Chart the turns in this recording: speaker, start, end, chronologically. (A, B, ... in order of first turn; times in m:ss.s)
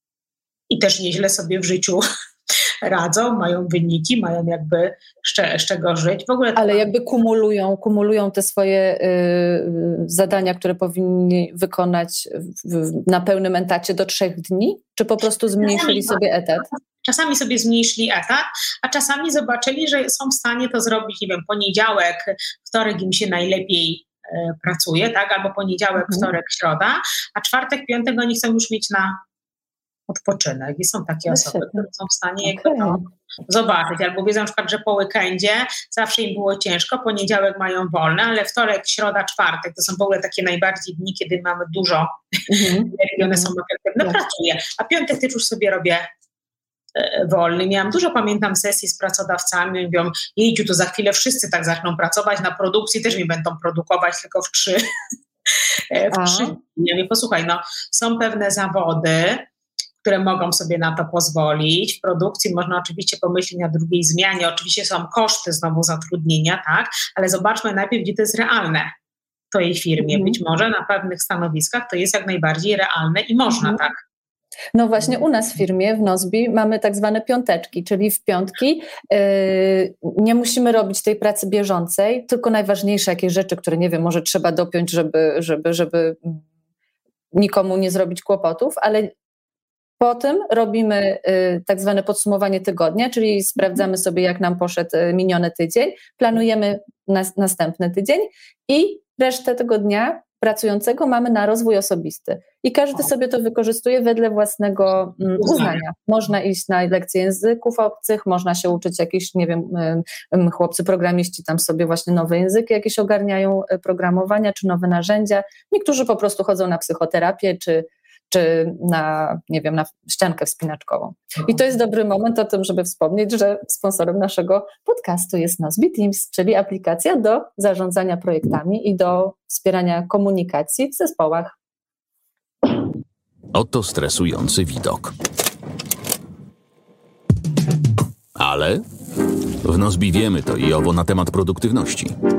0:00.7-0:02.0 A
0:02.8-0:06.8 A
0:06.6-0:16.7 B
0:15.6-0:16.2 A
0:16.7-0:29.2 A
0:26.0-0:26.3 B
0:30.1-0:42.2 A
0:31.3-0:31.9 B
0:32.4-0:33.1 B
0:42.5-0:44.1 B
0:42.9-0:46.1 A
0:47.0-0:54.8 A
0:55.9-0:59.5 A
0:56.1-0:56.6 B
1:00.0-1:08.9 A
1:09.5-1:14.0 A
1:10.0-1:10.4 B
1:13.6-1:13.8 B
1:14.7-1:26.4 B
1:27.3-1:29.1 B
1:30.0-2:11.6 B
1:45.4-1:45.8 A
2:13.5-2:15.1 C
2:18.4-2:18.8 C
2:19.6-2:22.1 C